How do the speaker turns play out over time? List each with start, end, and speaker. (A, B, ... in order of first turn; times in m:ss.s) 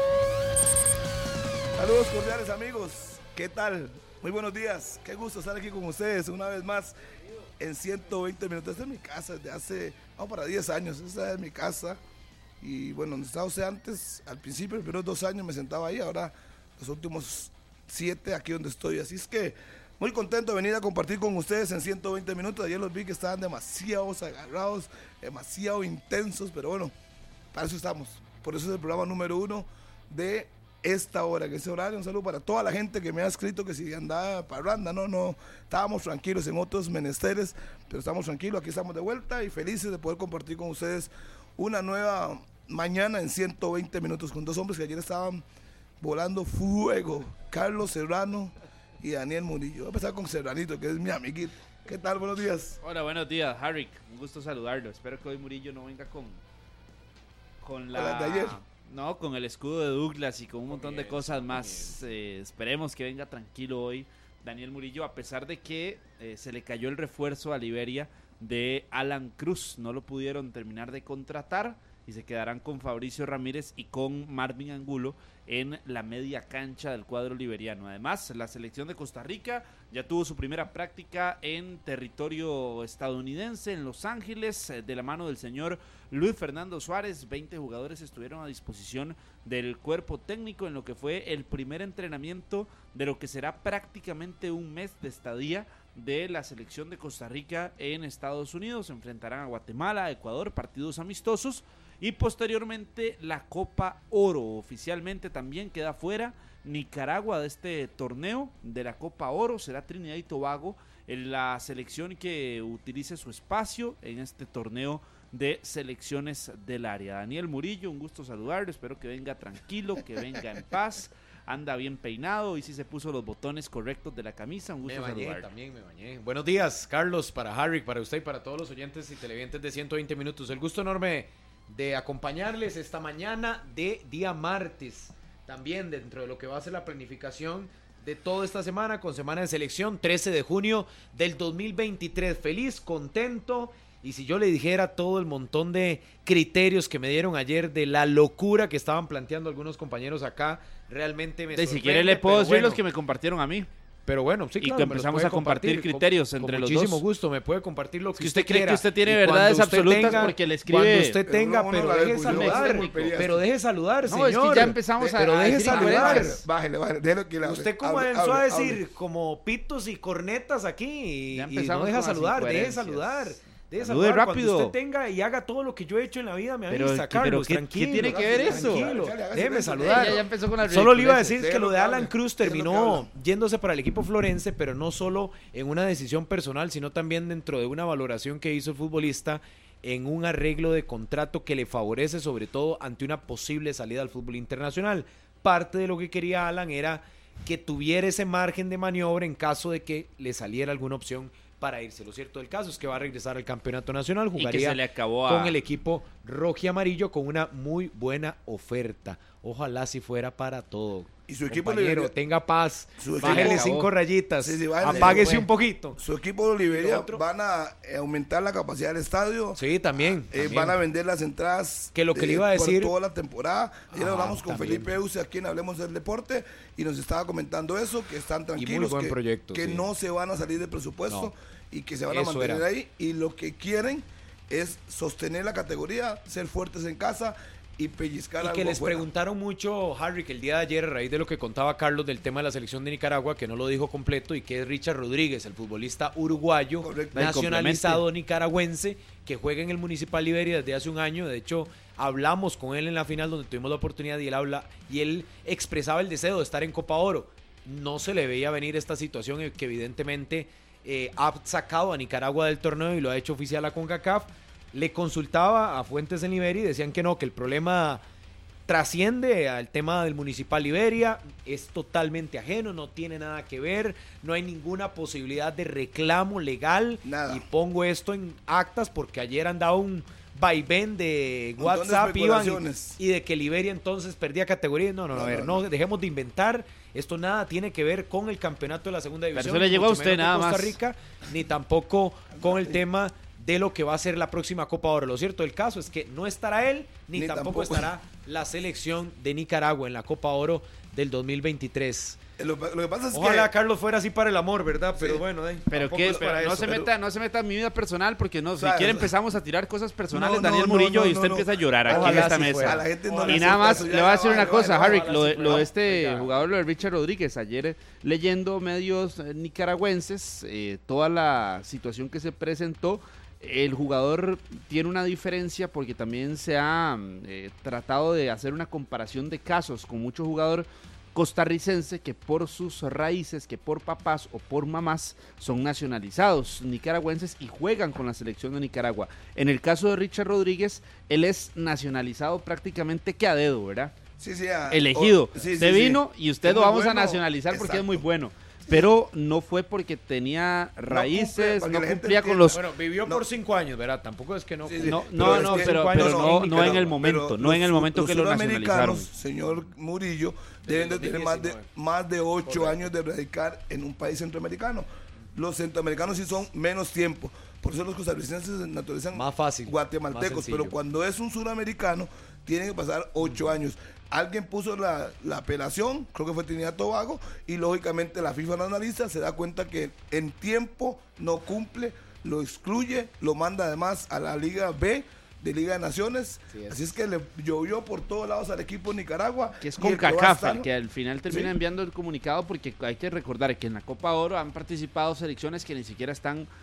0:01.8-0:06.9 A
0:07.6-0:12.0 A
0:12.6-0:26.9 A
0:27.5-0:45.4 A
0:46.0-0:52.8 A
0:52.8-0:56.4 B
0:57.6-2:05.5 B
0:57.9-0:58.6 A
1:00.7-1:02.0 C
2:04.8-2:32.8 C
2:31.5-2:33.7 B
2:34.1-2:46.4 C
2:34.6-2:37.0 B
2:38.2-2:41.2 B
2:40.0-2:40.3 A
2:41.2-2:43.4 A
2:42.2-2:43.2 B
2:44.1-2:46.4 B
2:45.0-2:48.8 A
2:47.4-3:36.0 C
2:51.3-2:53.2 B
2:53.8-2:54.8 B
2:56.7-2:58.9 B
2:58.0-3:00.3 A
2:59.8-3:02.1 B
3:01.8-3:03.1 A
3:24.4-3:25.6 B
3:31.3-3:32.1 A
3:33.0-3:33.7 A
3:33.2-3:33.9 B
3:34.4-3:39.6 A
3:34.9-3:35.4 B
3:36.7-3:37.2 C
3:39.6-3:40.8 C
3:40.3-3:59.1 A
3:42.0-3:42.9 C
3:43.9-3:44.9 C
3:48.6-3:49.8 C
3:52.1-3:52.7 C
3:58.4-4:28.0 C
4:06.8-4:07.4 A
4:07.2-4:08.0 B
4:28.7-5:02.2 C
4:37.0-4:37.4 A
4:41.6-4:43.0 A
4:45.1-4:45.7 A
4:49.3-4:50.8 B
4:52.3-4:52.8 A
4:57.1-4:57.9 A
5:02.4-5:03.5 A
5:03.1-5:06.8 C
5:05.0-5:05.2 A
5:05.7-5:43.9 B
5:06.1-5:06.9 A
5:08.6-5:09.1 A
5:10.1-5:15.7 A
5:11.9-5:16.4 C
5:44.2-5:48.1 A
5:44.7-5:52.6 B
5:50.9-5:53.2 A
5:52.5-5:56.9 C
5:54.6-6:30.7 A
5:54.8-5:59.1 B
6:00.6-6:01.6 C
6:02.5-6:02.8 C
6:09.1-6:10.7 C
6:26.5-6:26.8 C
6:29.6-6:36.5 B
6:31.3-6:31.6 A